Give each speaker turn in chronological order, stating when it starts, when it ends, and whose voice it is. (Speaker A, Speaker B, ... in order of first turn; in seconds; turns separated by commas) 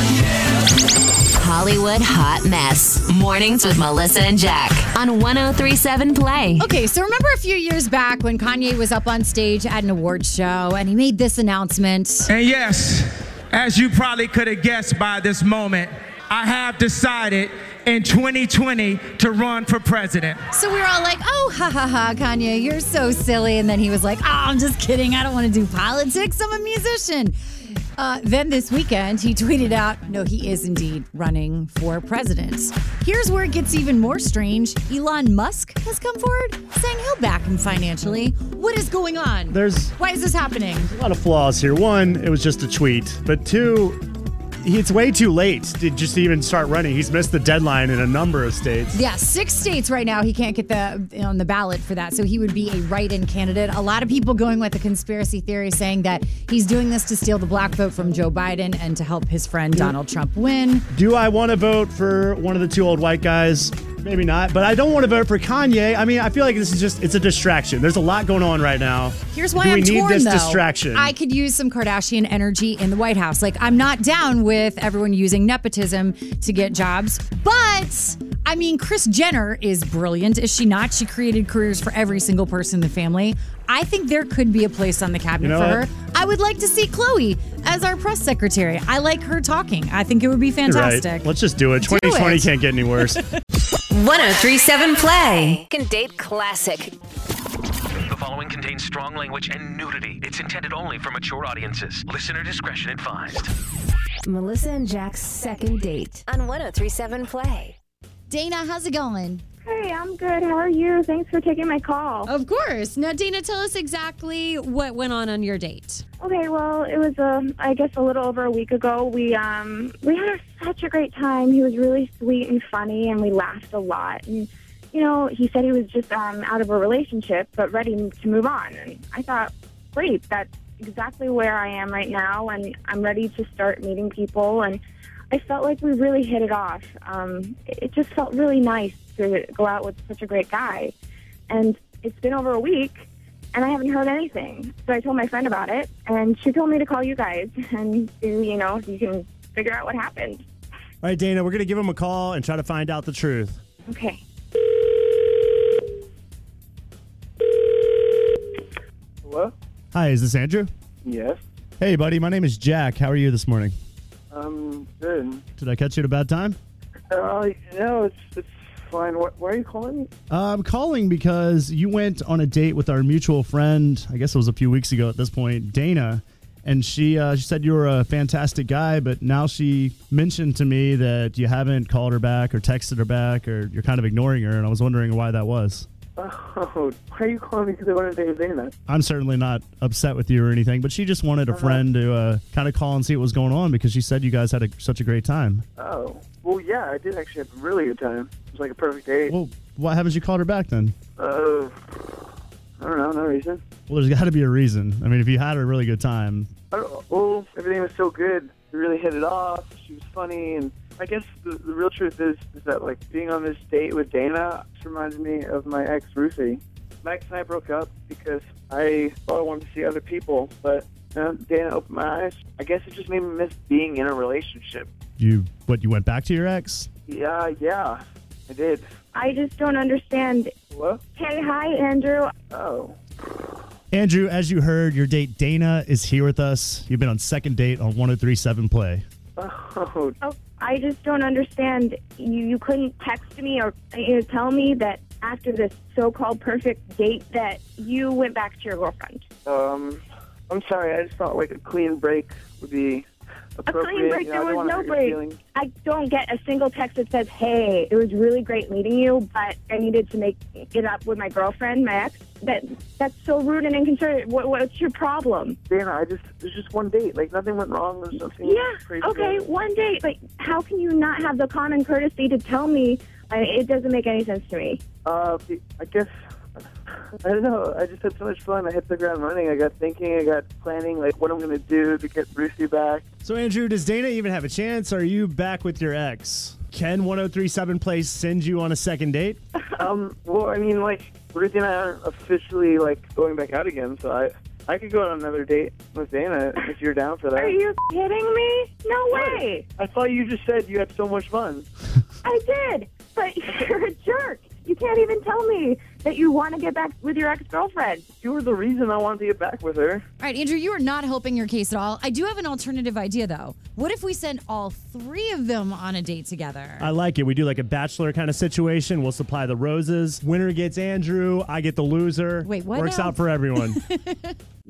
Speaker A: 1.4-6.6, Speaker B: 6.6-12.3, Speaker C: 12.3-20.4, Speaker B: 20.5-27.4, Speaker B: 27.9-40.9, Speaker D: 39.5-39.9, Speaker D: 40.9-44.0, Speaker D: 44.6-49.0, Speaker B: 48.9-60.9, Speaker D: 60.9-71.1, Speaker B: 69.3-91.3, Speaker D: 85.4-85.8, Speaker D: 90.7-93.2, Speaker B: 91.8-93.1, Speaker A: 93.9-96.9, Speaker E: 98.0-103.5, Speaker A: 104.5-107.7, Speaker B: 108.3-109.4, Speaker F: 109.6-112.3, Speaker B: 112.2-116.0, Speaker F: 116.2-140.9, Speaker F: 141.5-150.4, Speaker D: 151.0-153.6, Speaker F: 153.9-154.2, Speaker G: 159.2-159.5, Speaker D: 159.9-160.7, Speaker G: 161.0-161.4, Speaker D: 161.8-163.7, Speaker G: 164.3-165.4, Speaker D: 165.6-166.6, Speaker G: 167.1-170.1, Speaker D: 170.3-185.9, Speaker G: 186.2-188.7, Speaker D: 188.9-195.6, Speaker G: 191.5-191.8, Speaker G: 195.8-199.3, Speaker D: 199.3-200.9, Speaker G: 201.2-201.7, Speaker G: 202.8-203.6, Speaker D: 203.9-206.5, Speaker G: 206.7-224.9, Speaker D: 225.2-226.9, Speaker G: 227.1-228.9, Speaker F: 229.1-230.5, Speaker G: 230.7-231.0, Speaker F: 231.2-232.3, Speaker G: 232.5-232.9, Speaker D: 233.9-239.0, Speaker G: 239.4-240.2, Speaker F: 240.2-249.2, Speaker G: 249.4-253.1, Speaker G: 253.6-255.4, Speaker F: 253.7-265.6, Speaker G: 265.7-269.4, Speaker F: 268.5-274.8, Speaker G: 275.0-276.1, Speaker G: 277.2-283.0, Speaker D: 283.2-289.4, Speaker G: 289.8-297.6, Speaker F: 297.4-299.6, Speaker G: 299.1-301.7, Speaker F: 302.2-308.0, Speaker G: 308.2-310.0, Speaker B: 310.2-316.9, Speaker D: 316.8-323.8, Speaker B: 322.4-324.3